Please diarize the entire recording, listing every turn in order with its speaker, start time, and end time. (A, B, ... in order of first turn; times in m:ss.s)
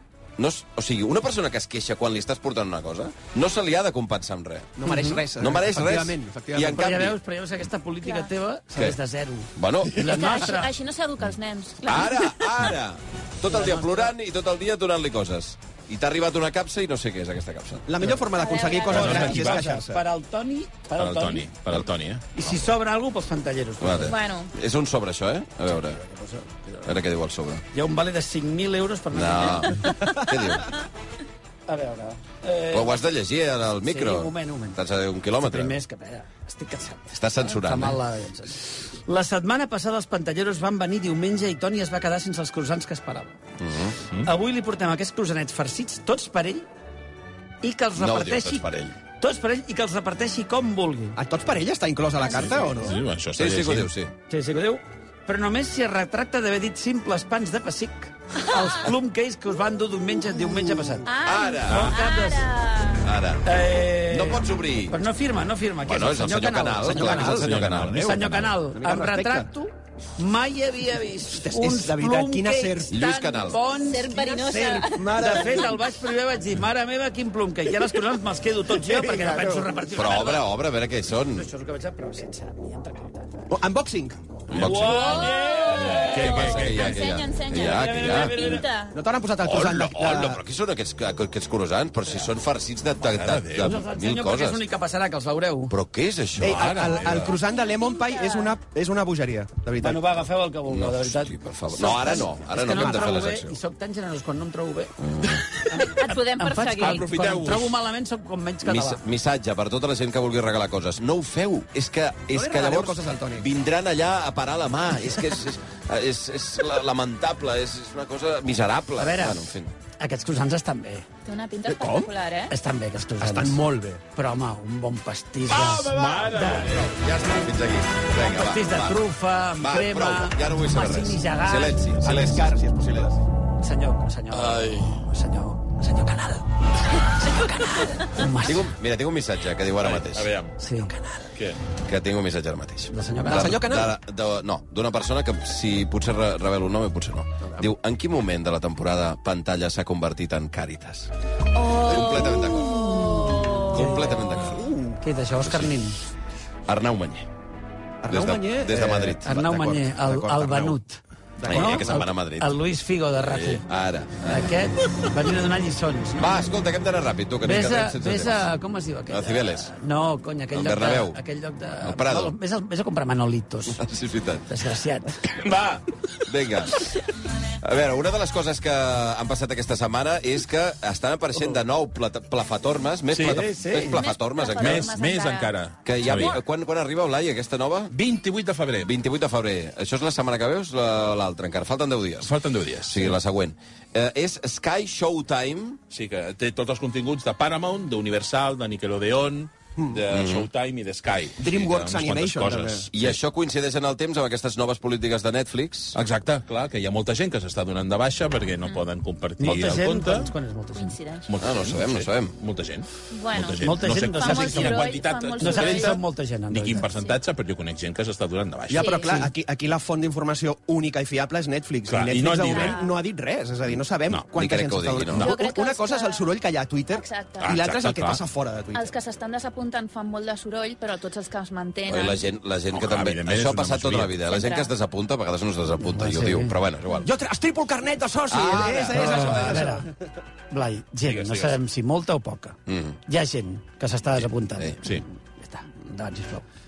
0:00.4-0:04.8 A
0:04.8-0:06.8 B
0:04.8-0:05.2 C
0:05.3-0:07.2 A
0:06.7-0:10.7 C
0:08.0-0:08.3 D
0:09.6-0:10.2 A
0:10.0-0:12.6 D
0:11.8-0:17.8 A
0:13.5-0:14.1 C
0:17.8-0:20.0 B
0:18.3-0:19.4 D
0:18.9-0:21.8 C
0:18.9-0:19.6 E
0:21.0-0:22.2 E
0:22.3-0:24.2 C
0:23.8-0:26.0 A
0:24.1-0:24.5 D
0:26.0-0:26.9 C
0:26.8-0:27.6 A
0:27.7-0:29.9 C
0:29.1-0:30.8 A
0:31.7-0:33.2 C
0:32.7-0:35.8 A
0:33.8-0:34.8 C
0:35.4-0:43.4 C
0:37.1-0:38.0 A
0:43.6-0:44.0 A
0:44.2-0:46.7 C
0:47.6-0:48.6 C
0:48.0-0:49.0 A
0:49.2-0:51.2 C
0:51.2-0:53.0 B
0:52.2-0:52.5 D
0:52.3-0:53.9 E
0:53.4-0:54.1 A
0:54.3-1:01.1 C
1:01.0-1:03.1 D
1:01.2-1:01.9 A
1:01.7-1:02.5 C
1:03.0-1:05.0 A
1:03.4-1:07.4 C
1:05.8-1:08.5 A
1:06.8-1:07.5 B
1:07.2-1:08.5 E
1:08.0-1:20.5 C
1:08.7-1:09.5 B
1:11.3-1:12.9 B
1:12.9-1:13.6 A
1:13.8-1:15.6 D
1:14.7-1:15.8 B
1:18.7-1:19.8 B
1:19.9-1:21.5 A
1:21.3-1:23.5 C
1:23.5-1:24.2 B
1:24.5-1:25.3 A
1:24.5-1:25.1 E
1:24.5-1:26.4 C
1:25.1-1:29.0 D
1:25.8-1:27.0 E
1:26.1-1:28.6 A
1:27.6-1:28.6 C
1:28.9-1:30.4 B
1:29.4-1:34.6 A
1:33.1-1:33.7 E
1:33.6-1:35.7 C
1:35.7-1:37.3 A
1:36.4-1:40.1 B
1:36.5-1:37.3 E
1:37.4-1:38.5 D
1:39.8-1:49.0 C
1:40.7-1:43.6 A
1:45.0-1:45.4 A
1:45.7-1:47.0 D
1:46.8-1:47.8 E
1:48.6-1:59.7 A
1:52.3-1:53.5 B
1:59.0-1:59.4 C
2:00.0-2:01.1 C
2:01.2-2:02.5 D
2:01.7-2:02.1 B
2:02.5-2:03.6 C
2:03.2-2:04.0 B
2:04.1-2:06.8 C
2:05.5-2:07.0 E
2:05.6-2:09.0 A
2:08.1-2:12.0 C
2:09.6-2:12.5 A
2:12.0-2:13.2 B
2:13.6-2:18.7 C
2:14.3-2:15.0 E
2:18.4-2:20.3 A
2:19.8-2:20.5 E
2:20.6-2:21.3 C
2:21.8-2:31.1 A
2:22.9-2:23.7 C
2:23.3-2:23.9 B
2:31.5-2:34.1 D
2:31.7-2:34.7 A
2:33.7-2:36.0 C
2:35.4-2:35.7 A
2:36.7-2:37.3 A
2:38.0-2:40.8 B
2:38.1-2:39.7 A
2:39.2-2:41.0 C
2:41.4-2:41.9 B
2:41.4-2:42.5 A
2:41.5-2:43.6 C
2:43.2-2:44.7 A
2:44.2-2:46.4 C
2:46.2-2:48.5 A
2:47.4-2:53.8 C
2:49.1-2:49.7 A
2:50.5-2:51.2 A
2:51.8-2:52.4 A
2:53.7-2:54.6 A
2:54.5-2:55.2 C
2:55.3-2:55.8 E
2:56.3-2:56.9 A
2:57.6-3:05.0 A
3:03.1-3:03.4 E
3:03.2-3:04.0 C
3:03.9-3:05.5 D
3:04.6-3:06.4 E
3:05.8-3:07.9 A
3:07.9-3:08.9 E
3:08.8-3:12.3 A
3:12.2-3:13.2 E
3:12.9-3:15.8 A
3:15.9-3:23.2 E
3:20.1-3:20.5 A
3:21.4-3:22.9 B
3:22.9-3:26.0 A
3:25.9-3:30.3 E
3:29.4-3:31.0 C
3:30.7-3:31.3 D
3:31.3-3:39.2 E
3:31.4-3:32.4 A
3:33.1-3:36.0 D
3:33.6-3:34.9 C
3:35.4-3:36.8 C
3:36.8-3:37.2 D
3:38.7-3:48.9 B
3:38.7-3:39.3 D
3:41.9-3:42.8 E
3:42.4-3:42.9 D
3:44.3-3:45.2 A
3:45.2-3:46.3 D
3:46.9-3:47.5 D
3:47.4-3:48.2 E
3:48.7-3:52.2 D
3:51.9-3:57.1 A
3:52.7-3:54.2 E
3:54.3-3:54.7 D
3:55.8-3:56.5 C
3:57.0-3:59.9 B
3:58.3-3:59.7 A
3:58.9-3:59.9 C
4:00.5-4:06.4 C
4:01.1-4:01.5 E
4:02.7-4:03.0 A